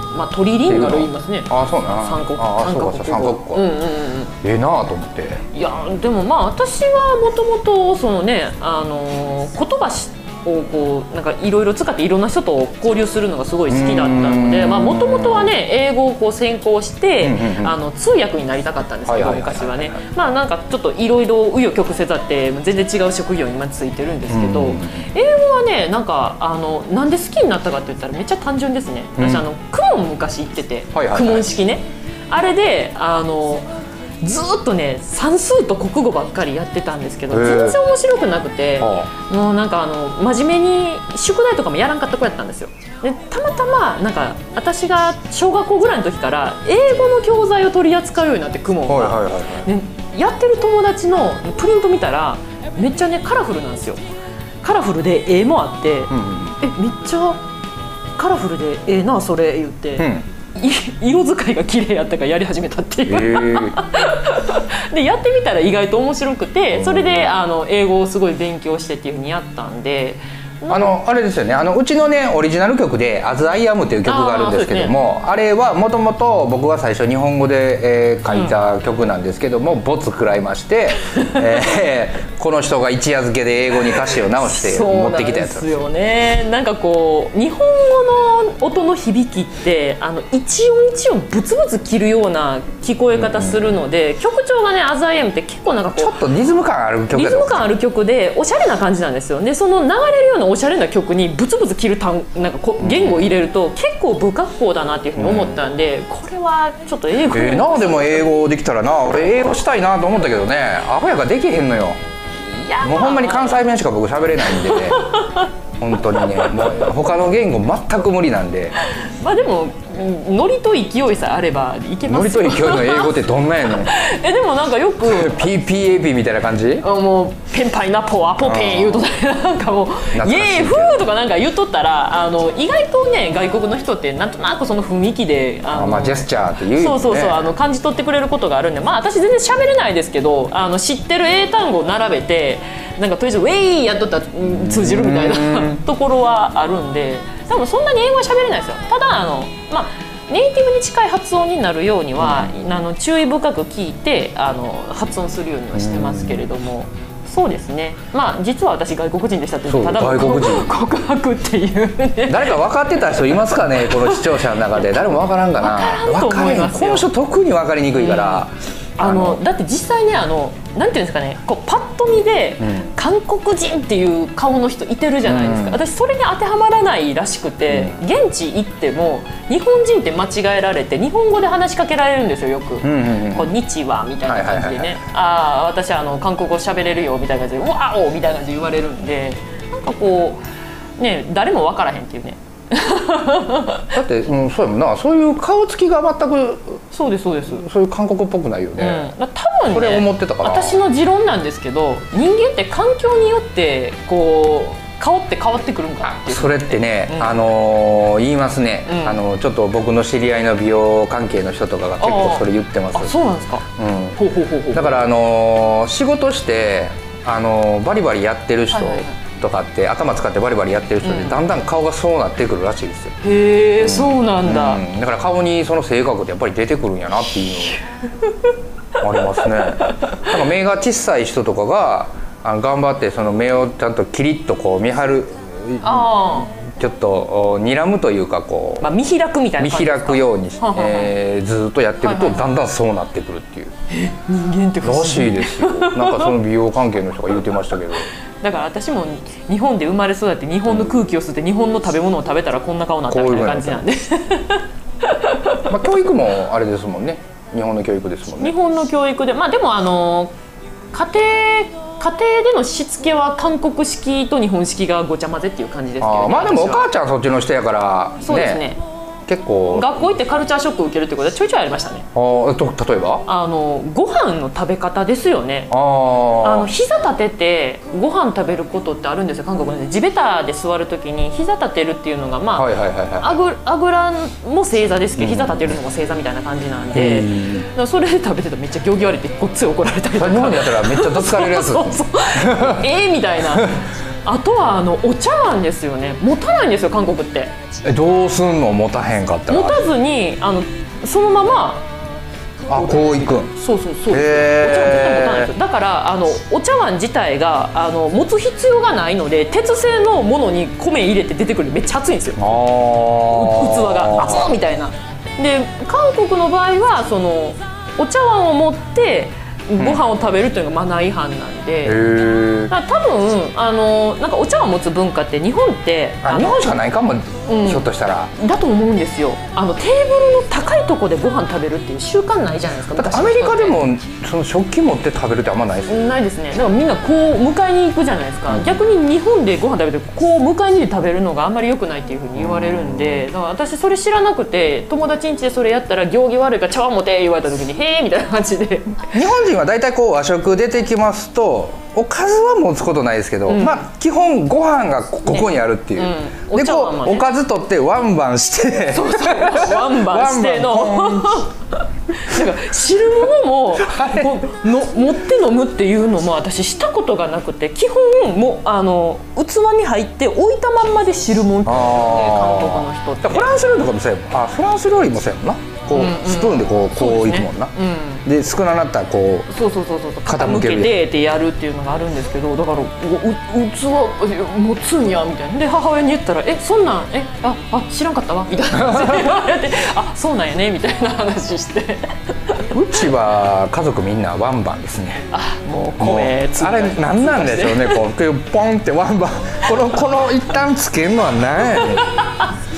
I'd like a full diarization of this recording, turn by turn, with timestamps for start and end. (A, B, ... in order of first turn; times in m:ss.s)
0:00.1-0:04.3 A
0:00.7-0:03.7 B
0:04.4-0:05.4 B
0:05.5-0:33.7 A
0:13.7-0:15.5 B
0:17.2-0:17.8 B
0:19.1-0:20.0 B
0:24.3-0:25.1 B
0:29.2-0:29.5 B
0:30.9-0:31.5 B
0:34.2-0:54.0 A
0:37.3-0:37.8 B
0:38.8-0:39.1 B
0:48.9-0:49.7 B
0:54.6-0:57.4 A
0:56.1-0:56.6 B
0:58.2-1:11.0 A
1:00.0-1:00.2 B
1:03.1-1:03.8 B
1:06.7-1:07.4 B
1:10.7-1:25.8 B
1:14.0-1:15.0 A
1:18.3-1:18.6 A
1:24.3-1:36.2 A
1:33.1-1:33.7 B
1:35.9-1:37.7 B
1:37.1-1:48.3 A
1:42.8-1:43.3 B
1:45.2-1:45.6 B
1:47.2-1:52.0 B
1:52.4-1:53.6 A
1:52.8-1:55.2 B
1:54.4-1:55.5 A
1:55.8-1:58.8 B
1:56.1-1:56.7 A
1:58.8-2:05.5 A
2:02.0-2:03.9 B
2:05.0-2:06.8 B
2:06.8-2:42.6 A
2:08.4-2:09.1 B
2:10.1-2:11.1 B
2:15.7-2:17.5 B
2:24.4-2:25.8 B
2:32.2-2:32.5 B
2:35.7-2:36.4 B
2:39.7-2:40.7 B
2:42.3-2:49.4 B
2:43.2-2:47.1 A
2:47.9-2:48.4 A
2:49.0-3:10.4 A
2:52.6-2:52.9 B
2:55.2-2:55.8 B
2:57.7-2:58.0 B
3:02.8-3:03.5 B
3:04.2-3:05.0 B
3:11.0-3:14.0 A
3:13.9-3:16.8 B
3:16.9-3:17.6 A
3:17.5-3:19.1 B
3:18.8-3:27.4 A
3:19.7-3:20.8 B
3:26.0-3:33.1 B
3:28.8-3:29.2 A
3:32.0-3:35.0 A
3:33.8-3:34.2 B
3:34.7-3:43.2 B
3:38.7-3:39.2 A
3:41.0-3:41.4 A
3:43.2-3:44.8 A
3:43.8-3:47.8 B
3:47.7-3:48.5 A
3:49.0-3:58.9 B
3:49.1-3:50.3 A
3:55.8-3:56.5 A
3:58.8-4:01.1 A
3:59.6-4:03.7 B
4:02.0-4:02.4 A
4:03.9-4:06.4 A
4:04.8-4:08.1 B
4:08.4-4:15.7 A
4:10.7-4:10.9 B
4:13.1-4:13.8 B
4:15.7-4:18.5 B
4:18.4-4:20.3 A
4:20.9-4:26.9 A
4:26.0-4:28.6 B
4:28.2-4:28.8 A
4:29.3-4:30.1 B
4:29.7-4:32.1 A
4:32.1-4:33.2 B
4:33.2-4:35.7 A
4:35.7-4:36.7 B
4:36.4-4:57.5 A
4:42.5-4:43.4 B
4:45.2-4:45.8 B
4:46.9-4:47.7 B
4:50.1-4:52.9 B
4:57.8-4:59.9 B
4:59.5-5:01.9 A
5:02.7-5:03.5 B
5:02.7-5:12.6 A
5:04.1-5:05.5 B
5:12.4-5:14.5 B
5:13.2-5:22.0 A
5:19.8-5:20.0 B
5:21.8-5:22.7 B
5:22.7-5:26.9 A
5:26.2-5:28.3 B
5:27.5-5:33.8 A
5:32.9-5:36.2 B
5:35.9-5:49.1 A
5:42.3-5:43.3 B
5:49.1-6:01.4 B
5:53.5-5:53.9 A
5:55.2-5:57.3 A
5:58.9-6:13.5 A
6:03.8-6:04.4 B
6:11.6-6:17.7 B
6:15.9-6:18.2 A
6:18.2-6:19.5 B
6:19.5-6:32.7 A
6:20.2-6:21.0 B
6:28.8-6:29.4 B
6:32.7-6:35.2 B
6:35.3-6:38.0 A
6:36.0-6:42.1 B
6:41.6-6:42.5 A